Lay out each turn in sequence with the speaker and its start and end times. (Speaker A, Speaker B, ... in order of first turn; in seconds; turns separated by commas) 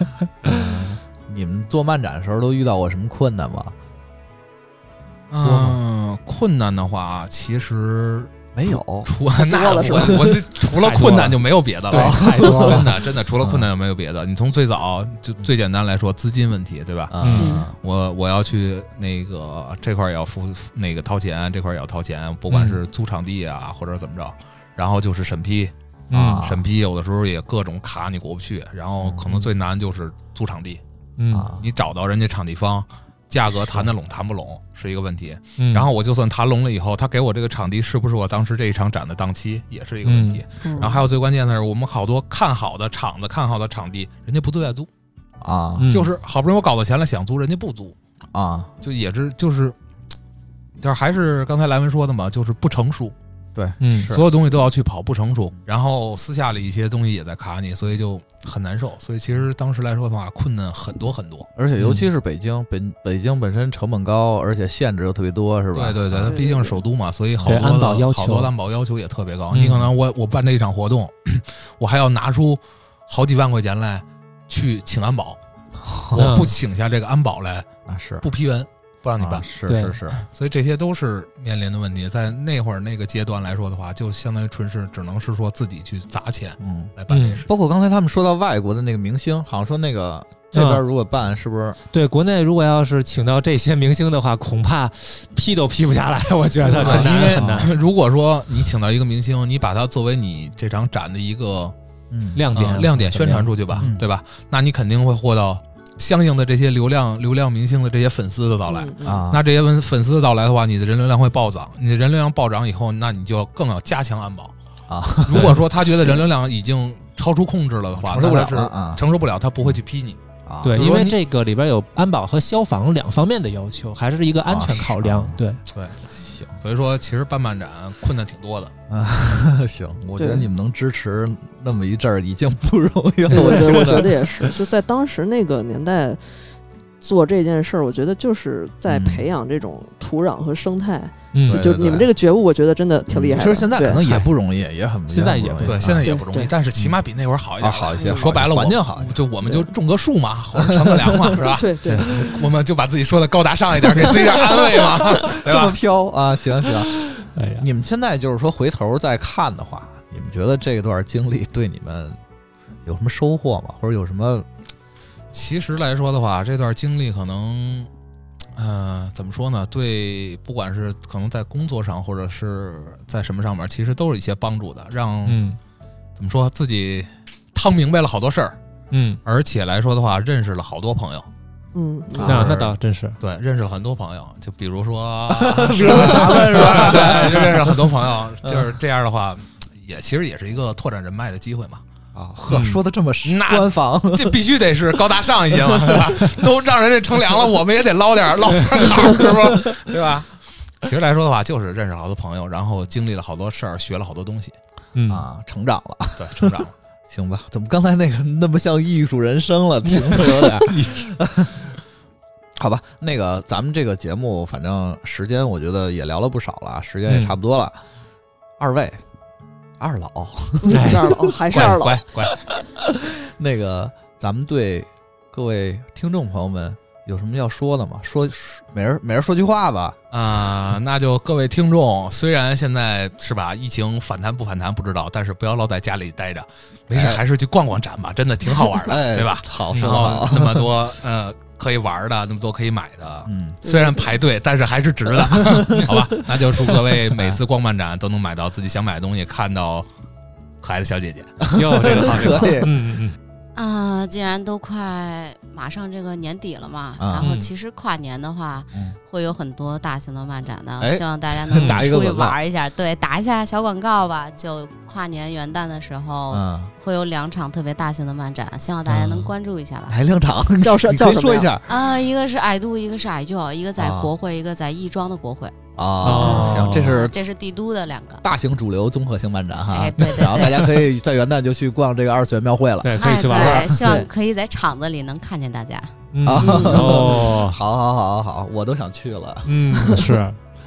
Speaker A: 0.4-3.8, Speaker B: 5.3-8.4, Speaker C: 5.4-5.8, Speaker A: 8.5-9.1, Speaker B: 9.0-25.7, Speaker D: 9.3-10.5, Speaker C: 10.8-13.0, Speaker A: 11.9-13.7, Speaker A: 17.1-17.8, Speaker C: 17.2-17.6, Speaker D: 17.4-17.7, Speaker C: 22.5-22.8, Speaker C: 26.1-26.4, Speaker A: 26.1-26.7, Speaker B: 26.4-30.8, Speaker A: 29.0-29.4, Speaker C: 31.2-31.5, Speaker A: 31.3-31.7, Speaker B: 31.6-44.9, Speaker C: 35.6-35.9, Speaker C: 40.0-40.4, Speaker D: 40.6-41.0, Speaker A: 45.4-45.9, Speaker C: 45.8-46.1, Speaker B: 45.9-48.0, Speaker A: 48.3-48.7, Speaker B: 48.8-49.8, Speaker B: 50.8-53.1, Speaker A: 53.5-54.2, Speaker C: 53.8-54.2, Speaker B: 54.1-61.5, Speaker A: 61.6-66.4, Speaker C: 61.8-62.1, Speaker B: 65.7-75.4, Speaker D: 66.3-66.8, Speaker C: 67.4-68.5, Speaker C: 69.5-69.9, Speaker A: 75.8-76.2, Speaker B: 76.1-77.7, Speaker C: 76.2-76.5, Speaker A: 77.9-78.3, Speaker B: 78.2-79.5, Speaker A: 79.2-80.2, Speaker C: 79.7-80.0, Speaker B: 80.1-87.5, Speaker A: 86.6-86.9, Speaker C: 87.1-87.5, Speaker A: 87.5-91.8, Speaker C: 90.5-90.8, Speaker C: 91.9-97.8, Speaker B: 96.7-101.7, Speaker A: 96.7-97.7, Speaker A: 102.1-102.4, Speaker C: 102.3-103.9, Speaker B: 102.5-114.5, Speaker D: 108.7-109.2, Speaker A: 109.0-109.4, Speaker A: 114.9-115.6, Speaker B: 115.2-120.2, Speaker C: 115.3-115.6, Speaker A: 118.0-119.0, Speaker A: 120.5-120.9, Speaker C: 120.6-125.6, Speaker B: 120.8-121.2, Speaker A: 124.5-125.4, Speaker B: 125.7-126.0, Speaker A: 126.1-126.5, Speaker B: 126.6-128.7, Speaker A: 128.9-134.3, Speaker D: 130.2-130.5, Speaker C: 133.3-134.1, Speaker D: 133.3-136.2, Speaker D: 137.0-144.0, Speaker A: 138.9-139.3, Speaker C: 141.3-141.7, Speaker A: 141.5-142.1, Speaker A: 143.1-146.2, Speaker C: 145.1-145.9, Speaker B: 145.6-155.8, Speaker D: 146.1-146.5, Speaker A: 147.6-149.2, Speaker D: 148.0-148.3, Speaker D: 149.4-149.7, Speaker A: 150.6-151.4, Speaker D: 151.3-152.5, Speaker C: 151.9-152.3, Speaker A: 154.1-162.2, Speaker C: 157.3-157.7, Speaker A: 162.8-164.5, Speaker B: 165.3-167.9, Speaker B: 168.6-175.4, Speaker C: 175.2-175.6, Speaker B: 176.2-178.6, Speaker C: 178.9-179.2, Speaker B: 179.2-181.3, Speaker D: 181.7-182.5, Speaker A: 182.2-182.7, Speaker C: 182.2-183.2, Speaker B: 183.2-191.8, Speaker A: 185.3-187.8, Speaker C: 185.9-187.6, Speaker A: 192.1-194.4, Speaker C: 192.5-192.8, Speaker B: 193.2-200.3, Speaker A: 195.7-196.2, Speaker B: 200.8-204.6, Speaker C: 204.9-205.2, Speaker A: 205.1-211.5, Speaker B: 206.2-206.7, Speaker C: 209.9-211.1, Speaker A: 212.6-217.8, Speaker C: 217.1-217.4, Speaker A: 218.6-219.0, Speaker A: 219.8-221.0, Speaker D: 220.6-222.1, Speaker C: 220.7-221.6, Speaker B: 221.5-222.5, Speaker A: 222.5-230.0, Speaker B: 230.1-249.9, Speaker A: 236.9-237.2, Speaker A: 238.6-240.7, Speaker C: 239.7-240.0, Speaker A: 243.2-243.6, Speaker D: 243.7-244.1, Speaker A: 245.1-246.2, Speaker A: 247.1-247.4, Speaker B: 250.6-251.4, Speaker A: 251.4-252.7, Speaker C: 251.6-253.2, Speaker E: 253.6-270.0, Speaker A: 257.0-257.3, Speaker C: 257.2-257.5, Speaker A: 260.8-262.4, Speaker A: 266.3-266.7, Speaker C: 268.9-269.3, Speaker A: 269.9-271.7, Speaker D: 270.6-271.5, Speaker E: 271.7-278.2, Speaker A: 273.8-274.1, Speaker A: 275.8-277.1, Speaker C: 276.0-277.0, Speaker A: 278.2-284.0, Speaker E: 279.7-280.8, Speaker C: 282.8-284.1, Speaker E: 283.0-285.9, Speaker C: 286.1-287.6, Speaker A: 286.2-290.0, Speaker D: 286.4-287.2, Speaker C: 289.4-290.4